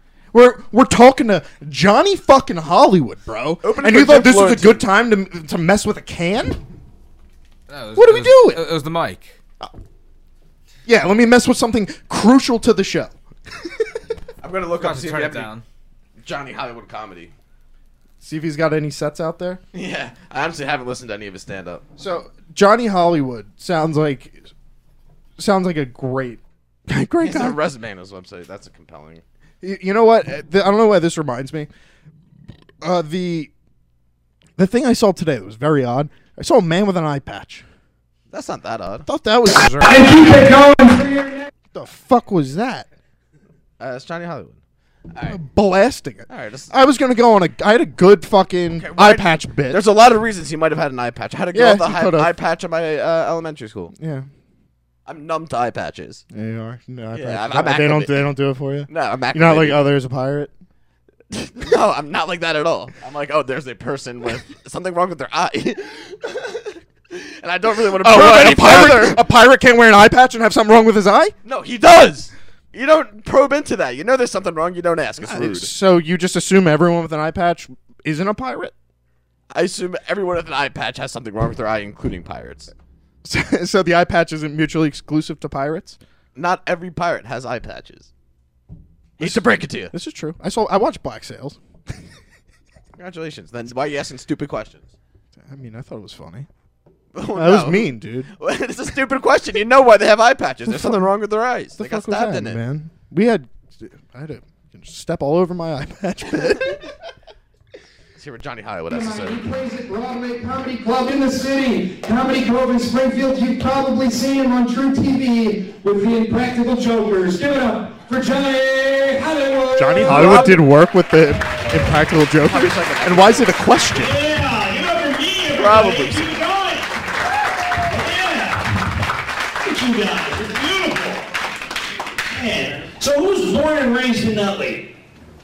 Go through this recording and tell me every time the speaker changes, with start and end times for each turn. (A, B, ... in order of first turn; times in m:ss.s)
0:00.3-0:06.6 A
0:03.6-0:04.8 B
0:07.7-0:09.4 C
0:07.9-0:08.6 A
0:10.8-0:13.9 A
0:14.4-0:15.5 B
0:14.8-0:15.6 C
0:16.2-0:17.3 B
0:18.2-0:19.6 A
0:19.7-0:21.8 B
0:22.0-0:24.5 A
0:25.4-0:27.6 A
0:27.2-0:29.2 B
0:29.6-0:31.7 A
0:32.8-0:33.5 A
0:34.6-0:37.6 A
0:38.3-0:39.1 B
0:39.0-0:40.4 A
0:39.8-0:41.5 D
0:41.7-0:42.9 A
0:43.8-0:44.6 B
0:45.1-0:45.4 B
0:45.3-0:49.8 A
0:46.3-0:46.7 B
0:48.8-0:53.9 B
0:51.5-0:52.3 A
0:54.0-0:54.3 A
0:55.0-0:56.2 B
0:56.3-1:00.5 A
0:57.1-0:58.3 B
0:58.9-0:59.8 B
1:01.3-1:09.2 B
1:08.0-1:11.4 A
1:11.4-1:15.7 B
1:15.2-1:18.7 A
1:19.5-1:22.7 B
1:23.2-1:26.0 A
1:26.3-1:28.1 B
1:29.2-1:29.9 B
1:29.2-1:31.6 A
1:33.0-1:34.9 B
1:35.4-1:36.5 A
1:37.1-1:42.6 B
1:37.3-1:38.3 A
1:40.7-1:41.0 A
1:41.8-1:46.9 A
1:48.2-1:49.5 B
1:48.9-2:00.5 D
1:59.8-2:04.2 A
2:00.1-2:00.5 B
2:02.4-2:03.6 B
2:03.9-2:06.9 E
2:05.5-2:06.3 B
2:07.9-2:08.8 E
2:09.6-2:11.3 E
2:12.3-2:14.9 E